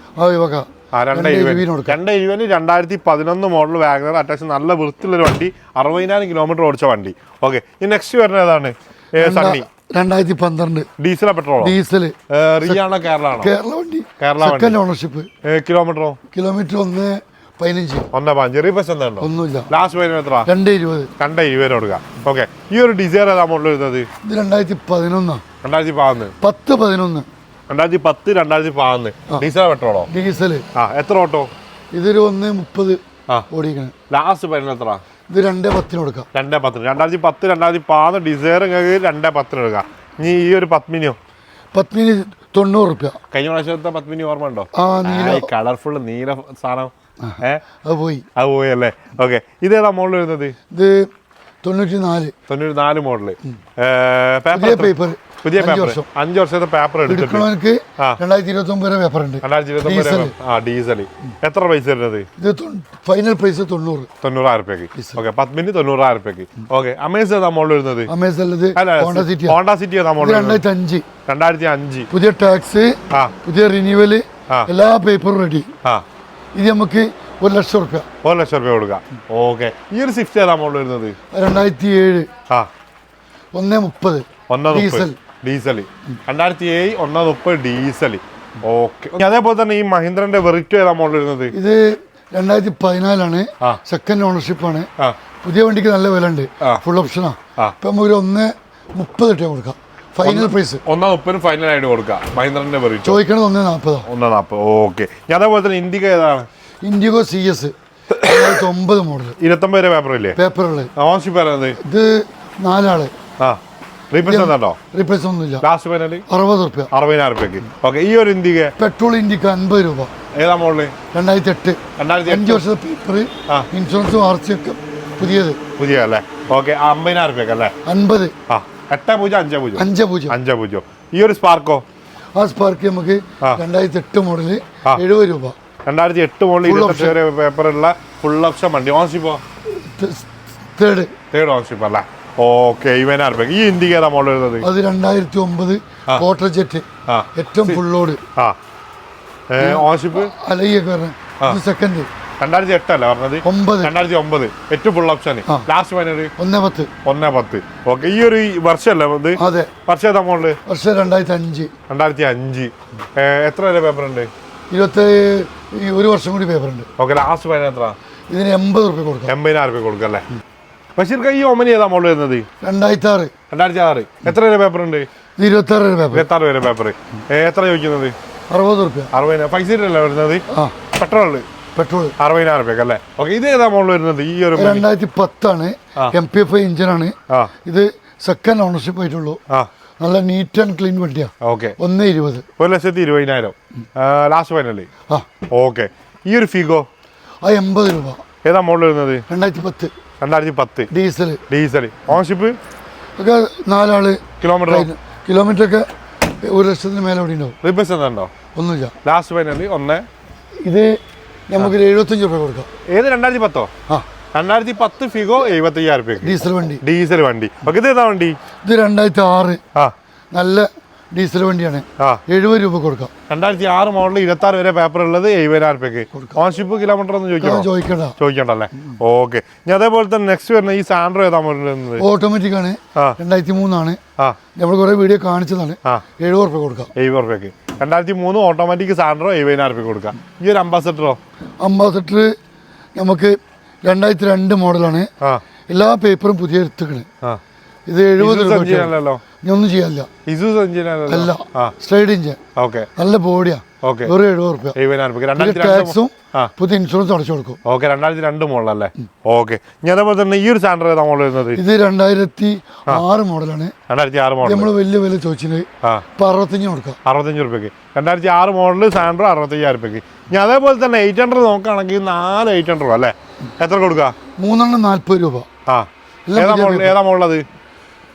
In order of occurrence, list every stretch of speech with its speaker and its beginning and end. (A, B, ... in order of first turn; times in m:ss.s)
0:00.2-0:02.0 A
0:00.9-0:09.6 B
0:09.2-0:10.9 A
0:11.0-0:11.7 B
0:11.6-0:12.8 A
0:12.3-0:13.5 B
0:13.4-0:15.3 A
0:14.2-0:14.8 B
0:15.4-0:16.2 B
0:16.3-0:18.1 A
0:18.1-0:20.5 B
0:19.2-0:19.7 A
0:20.4-0:21.1 A
0:21.2-0:24.1 B
0:24.2-0:25.4 A
0:25.6-0:26.3 B
0:26.4-0:27.3 A
0:27.7-0:30.1 B
0:30.1-0:30.6 A
0:30.7-0:31.5 B
0:31.9-0:33.9 A
0:34.1-0:35.0 B
0:35.3-0:36.3 A
0:36.3-0:41.2 B
0:41.7-0:43.2 A
0:43.3-0:47.6 B
0:44.7-0:45.5 A
0:47.2-0:48.2 A
0:48.4-0:50.6 B
0:50.7-0:51.1 A
0:51.6-0:52.3 A
0:52.5-0:57.5 B
0:54.5-0:56.0 A
0:57.1-1:00.3 A
0:59.4-1:02.3 B
1:02.4-1:04.1 A
1:04.2-1:08.1 B
1:04.9-1:05.2 A
1:08.1-1:09.6 A
1:08.8-1:10.6 B
1:10.2-1:11.0 A
1:11.2-1:12.1 B
1:12.1-1:15.7 A
1:16.5-1:18.0 A
1:18.2-1:21.2 B
1:21.3-1:22.3 A
1:23.5-1:25.2 A
1:24.5-1:31.5 B
1:31.5-1:34.9 A
1:35.4-1:40.8 A
1:40.2-1:43.2 B
1:43.0-1:44.0 A
1:44.0-1:46.5 B
1:46.8-1:49.4 A
1:49.4-1:50.4 B
1:50.4-1:50.9 A
1:51.0-1:51.8 B
1:51.8-1:53.1 A
1:54.1-1:54.8 B
1:54.2-1:55.6 A
1:55.6-1:56.2 B
1:56.3-1:56.9 A
1:56.9-1:58.7 B
1:58.8-2:00.1 A
2:00.3-2:00.9 B
2:01.1-2:05.6 A
2:02.0-2:02.6 B
2:05.8-2:07.7 B
2:07.8-2:08.3 A
2:08.5-2:11.8 B
2:09.8-2:10.4 A
2:12.4-2:15.5 A
2:15.9-2:19.4 B
2:16.6-2:17.2 A
2:19.7-2:21.1 A
2:21.3-2:24.6 B
2:24.6-2:28.2 A
2:27.1-2:27.8 B
2:29.5-2:30.3 B
2:29.6-2:32.1 A
2:32.4-2:36.3 B
2:33.4-2:33.9 A
2:36.4-2:36.9 A
2:37.0-2:40.6 B
2:39.4-2:39.7 A
2:40.6-2:41.7 A
2:41.9-2:44.3 B
2:44.7-2:46.9 A
2:47.0-2:48.0 B
2:48.3-2:49.3 A
2:49.3-2:50.2 B
2:51.0-2:52.5 B
2:52.6-2:53.3 A
2:53.5-2:55.1 B
2:55.4-2:56.2 A
2:56.1-2:58.1 B
2:58.5-2:59.1 A
2:59.1-3:01.4 B
3:00.5-3:00.8 A
3:01.7-3:02.1 A
3:02.2-3:04.8 B
3:04.5-3:09.4 A
3:10.0-3:12.4 A
3:11.4-3:11.8 B
3:12.6-3:14.9 B
3:15.5-3:16.8 B
3:17.4-3:18.2 A
3:18.4-3:19.2 B
3:19.3-3:19.9 A
3:20.2-3:20.9 B
3:20.9-3:21.4 A
3:21.5-3:22.6 B
3:23.2-3:25.9 A
3:24.4-3:24.9 B
3:26.4-3:27.6 A
3:27.6-3:28.3 B
3:28.5-3:28.9 A
3:29.0-3:30.1 B
3:30.6-3:31.0 A
3:31.5-3:32.7 A
3:32.9-3:33.7 B
3:34.3-3:38.4 B
3:36.2-3:36.8 A
3:38.6-3:39.6 A
3:40.3-3:43.1 A
3:43.3-3:52.0 B
3:46.1-3:46.4 A
3:47.4-3:48.2 A
3:52.0-3:54.0 A
3:54.5-3:56.9 A
3:57.0-4:01.2 B
4:01.6-4:02.3 A
4:03.0-4:05.1 A
4:05.7-4:07.1 A
4:07.9-4:10.1 A
4:08.2-4:09.2 B
4:10.2-4:11.7 B
4:11.1-4:12.4 A
4:12.6-4:12.9 B
4:13.0-4:14.8 A
4:13.8-4:14.1 B
4:14.7-4:16.5 B
4:15.4-4:17.6 A
4:17.6-4:21.6 B
4:21.5-4:23.7 A
4:23.9-4:24.7 B
4:24.4-4:27.0 A
4:27.0-4:34.1 B
4:34.4-4:35.5 A
4:35.7-4:37.4 B
4:36.3-4:36.9 A